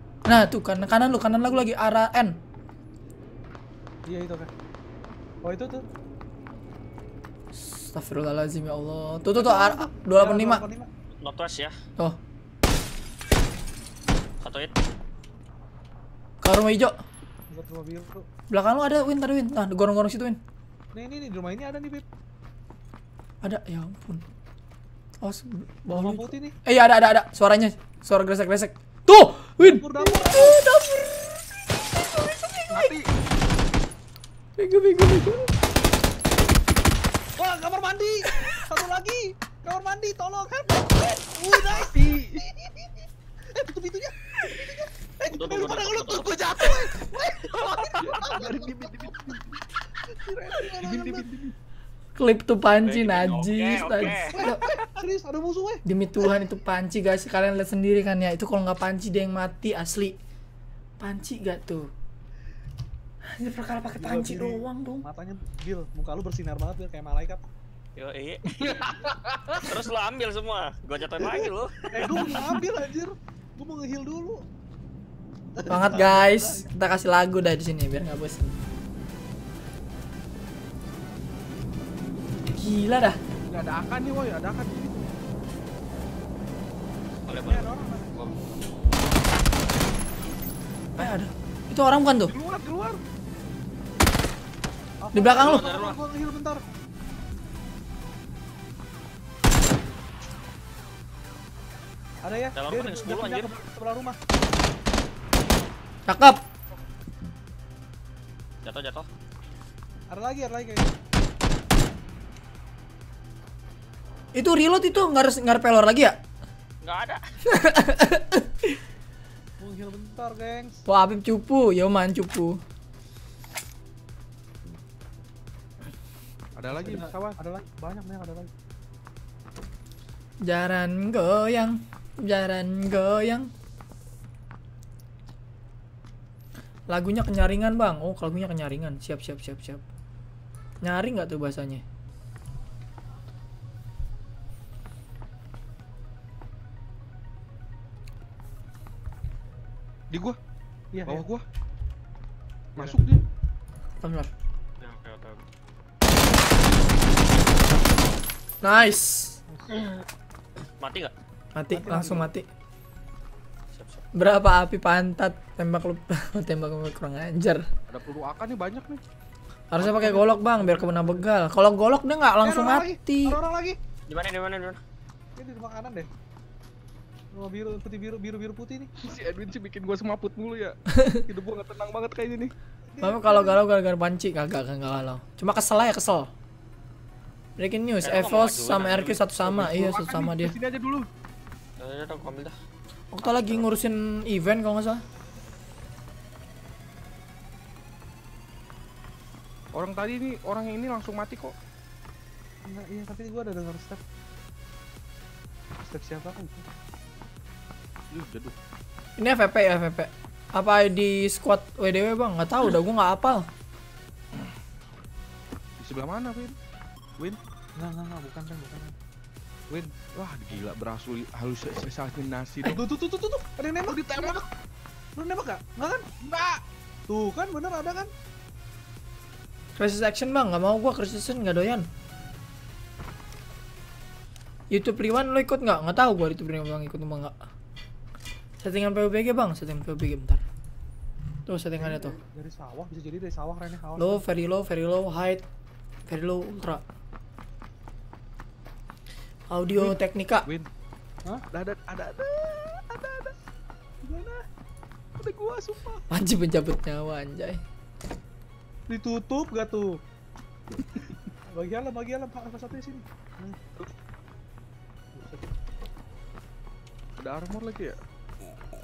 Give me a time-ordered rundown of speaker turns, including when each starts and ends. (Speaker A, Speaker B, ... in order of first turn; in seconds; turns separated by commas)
Speaker A: 0.2-2.4, Speaker B: 4.0-4.5, Speaker B: 5.4-5.8, Speaker A: 7.5-10.6, Speaker B: 9.3-10.9, Speaker C: 11.2-11.7, Speaker C: 14.4-14.7, Speaker A: 16.4-17.0, Speaker B: 17.5-18.3, Speaker A: 18.5-20.4, Speaker B: 20.9-22.1, Speaker A: 23.4-24.2, Speaker A: 25.2-32.9, Speaker B: 25.9-26.6, Speaker B: 29.6-30.6, Speaker D: 32.7-33.1, Speaker A: 34.6-35.5, Speaker B: 37.4-49.1, Speaker D: 41.7-42.4, Speaker C: 45.3-46.7, Speaker D: 46.2-46.9, Speaker D: 48.0-49.6, Speaker B: 50.0-51.3, Speaker D: 50.8-51.5, Speaker A: 52.1-54.6, Speaker C: 52.8-54.5, Speaker B: 54.0-55.8, Speaker A: 55.9-60.1, Speaker A: 61.0-61.9, Speaker A: 63.3-65.0, Speaker B: 63.9-67.4, Speaker C: 68.0-68.9, Speaker D: 68.5-69.9, Speaker C: 69.6-72.6, Speaker B: 71.1-74.4, Speaker B: 75.6-76.8, Speaker A: 75.7-78.5, Speaker A: 82.5-83.2, Speaker D: 83.5-85.1, Speaker B: 87.2-88.5, Speaker C: 87.3-88.5, Speaker A: 91.0-92.3, Speaker D: 92.2-93.0, Speaker B: 95.0-96.6, Speaker A: 95.1-95.6, Speaker C: 95.4-96.0, Speaker B: 102.2-104.2, Speaker C: 102.5-103.6, Speaker A: 106.1-106.4, Speaker C: 108.6-109.1, Speaker B: 110.1-110.9, Speaker A: 114.3-116.1, Speaker C: 116.8-117.2, Speaker A: 117.5-118.8, Speaker B: 119.6-120.8, Speaker A: 120.8-122.6, Speaker D: 126.5-127.4, Speaker B: 126.7-128.5, Speaker A: 130.4-133.5, Speaker A: 136.9-139.8, Speaker A: 140.8-141.8, Speaker D: 150.1-150.4, Speaker B: 150.9-151.3, Speaker D: 151.0-151.4, Speaker D: 152.8-153.2, Speaker B: 152.8-153.1, Speaker A: 154.0-154.3, Speaker C: 154.8-155.4, Speaker A: 158.6-159.4, Speaker C: 160.8-161.1, Speaker A: 161.5-162.4, Speaker B: 161.7-162.3, Speaker C: 163.7-164.0, Speaker A: 164.1-167.6, Speaker D: 167.9-169.0, Speaker A: 169.7-173.4, Speaker B: 169.8-171.3, Speaker B: 172.4-173.8, Speaker C: 174.1-174.8, Speaker B: 175.4-176.1, Speaker B: 177.3-178.9, Speaker D: 179.0-182.5, Speaker A: 180.9-181.2, Speaker B: 182.9-183.6, Speaker A: 183.0-186.3, Speaker A: 187.6-190.5, Speaker C: 188.0-189.4, Speaker D: 189.4-191.1, Speaker C: 191.8-192.5, Speaker A: 193.1-195.0, Speaker C: 193.2-193.7, Speaker D: 199.7-201.5, Speaker B: 202.6-204.0, Speaker B: 205.8-206.7, Speaker D: 208.1-208.6, Speaker A: 209.2-213.5, Speaker D: 215.8-216.6, Speaker B: 217.8-218.9, Speaker D: 219.7-222.8, Speaker B: 222.6-224.4, Speaker D: 223.8-224.5, Speaker B: 225.2-226.1, Speaker D: 226.2-226.6, Speaker B: 227.1-228.1, Speaker A: 229.8-231.9, Speaker A: 234.7-237.3, Speaker A: 238.6-240.4, Speaker A: 241.5-242.2, Speaker B: 241.8-244.3, Speaker A: 244.0-245.4, Speaker A: 246.1-246.8, Speaker A: 249.5-250.4, Speaker D: 249.8-250.7, Speaker D: 251.5-253.3, Speaker D: 254.0-254.4, Speaker D: 255.2-256.0, Speaker A: 256.1-257.6, Speaker B: 258.9-260.0, Speaker B: 261.5-263.6, Speaker B: 265.1-265.5, Speaker D: 267.2-268.0